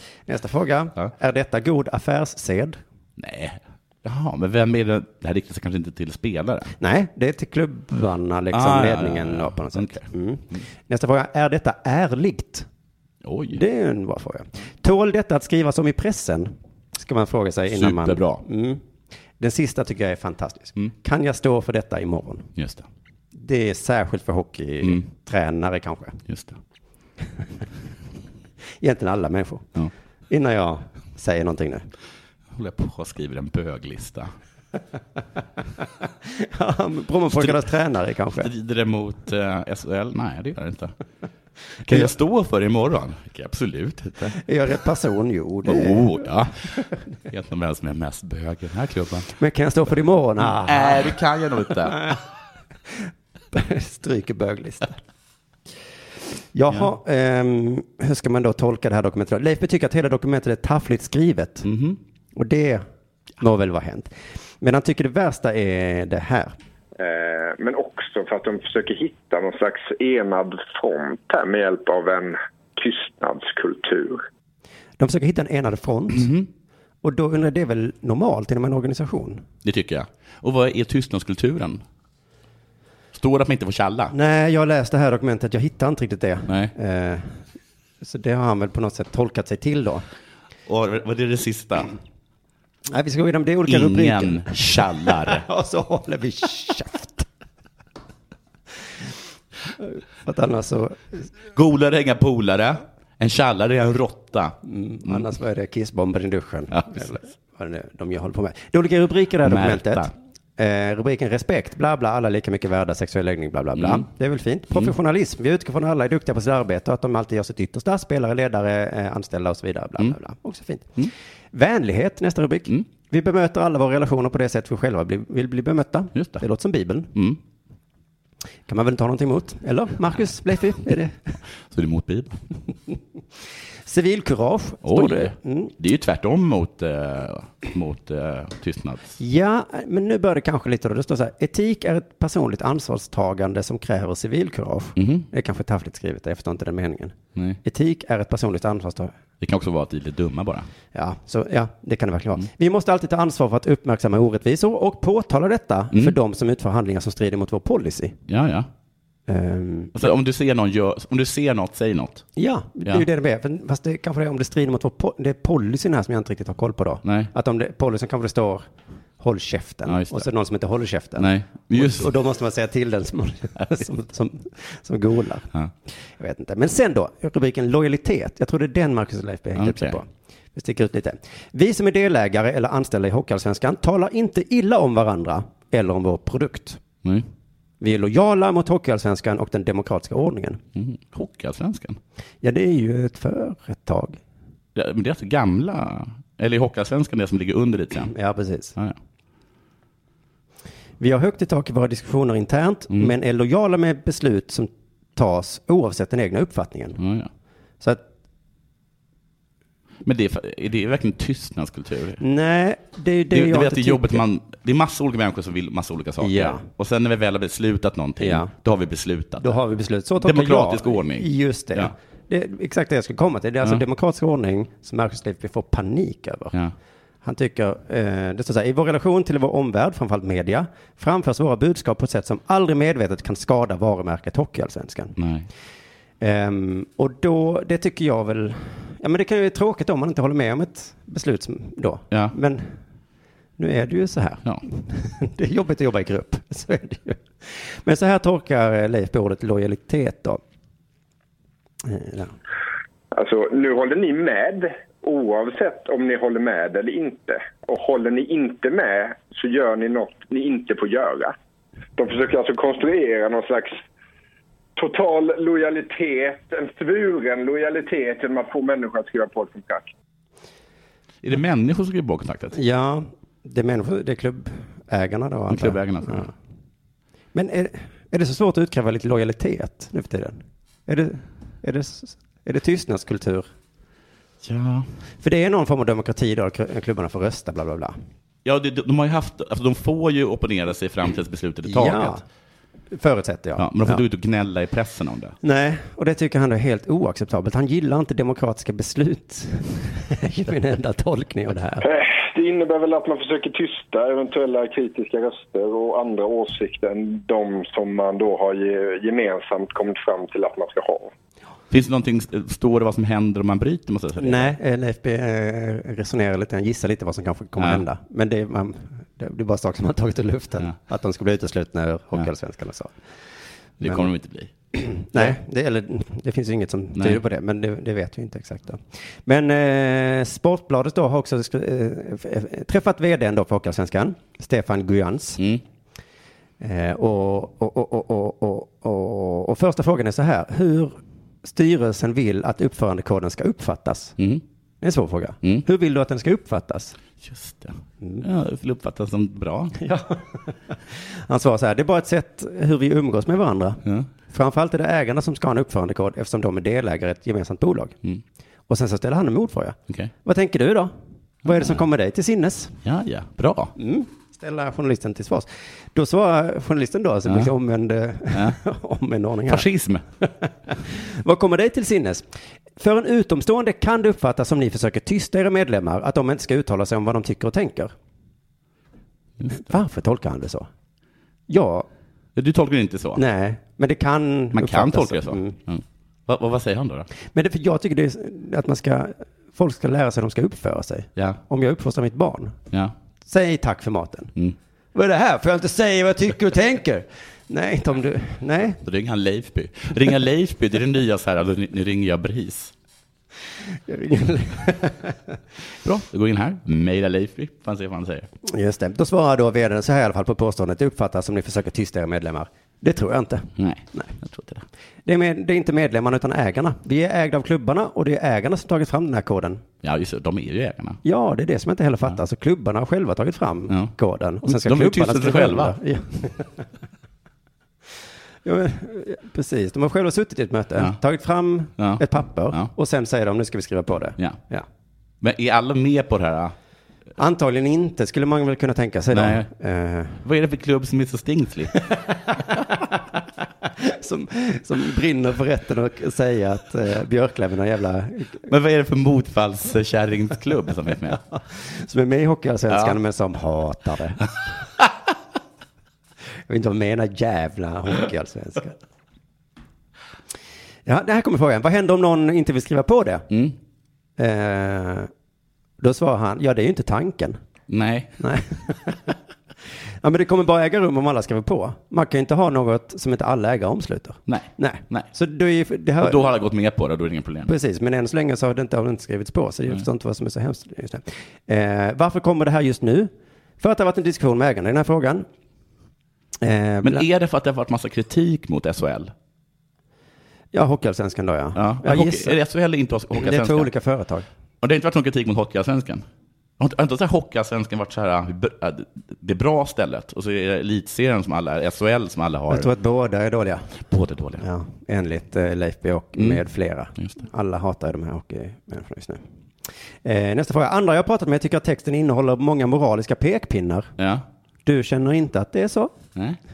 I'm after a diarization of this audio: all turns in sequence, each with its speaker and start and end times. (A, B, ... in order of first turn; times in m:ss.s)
0:00.3-0:02.8 A
0:03.2-0:06.7 B
0:06.8-0:12.7 A
0:08.5-0:10.6 B
0:13.2-0:13.6 B
0:13.5-0:18.8 A
0:17.7-0:18.4 B
0:19.4-0:22.5 A
0:22.6-0:22.9 B
0:23.4-0:26.2 A
0:26.3-0:26.6 B
0:28.8-0:29.7 A
0:30.3-0:31.9 A
0:32.5-0:34.3 B
0:36.2-0:38.5 A
0:38.4-0:40.9 B
0:41.8-0:44.4 B
0:44.3-0:46.2 A
0:45.6-0:46.7 B
0:47.2-0:49.3 B
0:49.3-0:51.2 A
0:50.4-0:52.1 B
0:53.5-0:55.0 A
0:56.5-1:01.7 A
1:01.6-1:02.0 B
1:02.4-1:02.8 A
1:03.4-1:06.5 A
1:07.0-1:14.2 C
1:15.0-1:16.3 A
1:16.1-1:16.5 B
1:17.0-1:19.4 A
1:19.6-1:21.8 B
1:23.1-1:24.1 B
1:24.1-1:27.4 A
1:26.5-1:26.7 B
1:28.0-1:30.1 A
1:30.7-1:31.9 B
1:32.9-1:37.3 A
1:33.7-1:35.4 B
1:39.8-1:41.3 A
1:41.5-1:45.2 B
1:44.6-2:07.1 A
1:46.7-1:47.0 B
1:49.4-1:50.1 B
1:53.8-1:54.0 B
2:06.2-2:06.4 B
2:08.7-2:11.2 A
2:11.7-2:12.4 B
2:13.8-2:15.7 A
2:14.8-2:19.2 B
2:19.2-2:29.1 A
2:25.0-2:25.3 B
2:29.4-2:30.7 B
2:30.9-2:38.2 A
2:38.3-2:38.7 B
2:39.3-2:40.1 A
2:40.0-2:42.2 B
2:42.4-2:48.6 A
2:47.0-2:47.3 B
2:49.2-3:06.8 A
2:49.9-2:50.2 B
2:51.2-2:52.1 B
2:59.6-3:00.0 B
3:07.8-3:10.6 A
3:10.8-3:12.0 B
3:12.4-3:14.2 A
3:14.8-3:18.1 B
3:18.1-3:18.8 A
3:21.0-3:27.0 A
3:27.0-3:27.3 B
3:30.0-3:32.2 B
3:32.2-3:34.2 A
3:33.3-3:39.6 B
3:36.2-3:36.6 A
3:38.2-3:38.5 A
3:39.4-3:46.6 A
3:40.2-3:41.9 B
3:47.2-3:55.2 A
3:55.2-3:55.5 B
3:56.2-4:02.8 A
4:03.6-4:10.4 A
4:11.8-4:12.3 A
4:13.1-4:21.4 C
4:22.0-4:23.8 C
4:24.8-4:29.9 C
4:31.2-4:32.6 B
4:32.5-4:36.3 A
4:35.5-4:36.3 B
4:37.3-4:43.5 A
4:44.4-4:44.9 B
4:45.2-4:48.0 A
4:48.4-4:52.2 B
4:51.6-4:52.2 A
4:52.9-4:54.0 A
4:53.6-4:55.4 B
4:55.4-5:01.9 A
5:01.8-5:11.1 C
5:11.7-5:14.5 B
5:14.2-5:22.9 A
5:23.8-5:24.1 A
5:23.8-5:24.5 B
5:24.8-5:35.4 A
5:27.0-5:27.2 B
5:36.6-5:44.2 A
5:44.2-5:44.4 B
5:44.8-5:47.0 A
5:47.2-5:49.8 B
5:49.8-5:58.0 A
5:58.7-6:00.9 A
6:01.4-6:02.8 A
6:02.8-6:03.7 B
6:03.8-6:09.7 A
6:07.3-6:07.5 B
6:09.5-6:10.0 B
6:10.2-6:17.9 A
6:19.5-6:20.7 A
6:21.5-6:21.9 A
6:22.4-6:23.2 B
6:23.2-6:25.6 A
6:24.5-6:27.1 B
6:27.3-6:32.6 A
6:33.2-6:34.3 A
6:34.9-6:38.8 A
6:38.8-6:42.7 B
6:43.9-6:45.2 A
6:45.8-6:48.3 B
6:48.4-6:54.2 A
6:53.6-6:54.6 B
6:55.0-6:59.6 A
6:59.8-7:01.0 B
7:01.0-7:06.6 A
7:04.4-7:05.8 B
7:08.4-7:14.7 A
7:11.8-7:12.7 B
7:15.2-7:16.6 B
7:17.2-7:20.2 A
7:19.1-7:19.5 B
7:20.2-7:21.8 B
7:22.2-7:23.0 A
7:23.6-7:28.5 A
7:28.4-7:31.2 B
7:31.1-7:34.3 A
7:32.7-7:33.0 B
7:36.5-7:38.8 A
7:40.9-7:43.3 A
7:43.3-7:43.6 B
7:44.2-7:45.1 A
7:45.8-7:47.4 A
7:47.7-7:48.2 B
7:48.2-7:49.2 A
7:50.0-7:56.3 A
7:54.3-7:55.1 B
7:56.0-7:57.5 B
7:57.5-8:05.3 A
8:06.4-8:07.0 A
8:06.8-8:09.1 B
8:10.5-8:12.4 A
8:11.6-8:13.7 B
8:13.2-8:14.3 A
8:14.6-8:16.0 B
8:16.6-8:22.7 B
8:22.5-8:23.8 A
8:23.8-8:24.4 B
8:24.4-8:29.2 A
8:30.0-8:33.9 A
8:34.0-8:34.2 B
8:34.7-8:35.9 A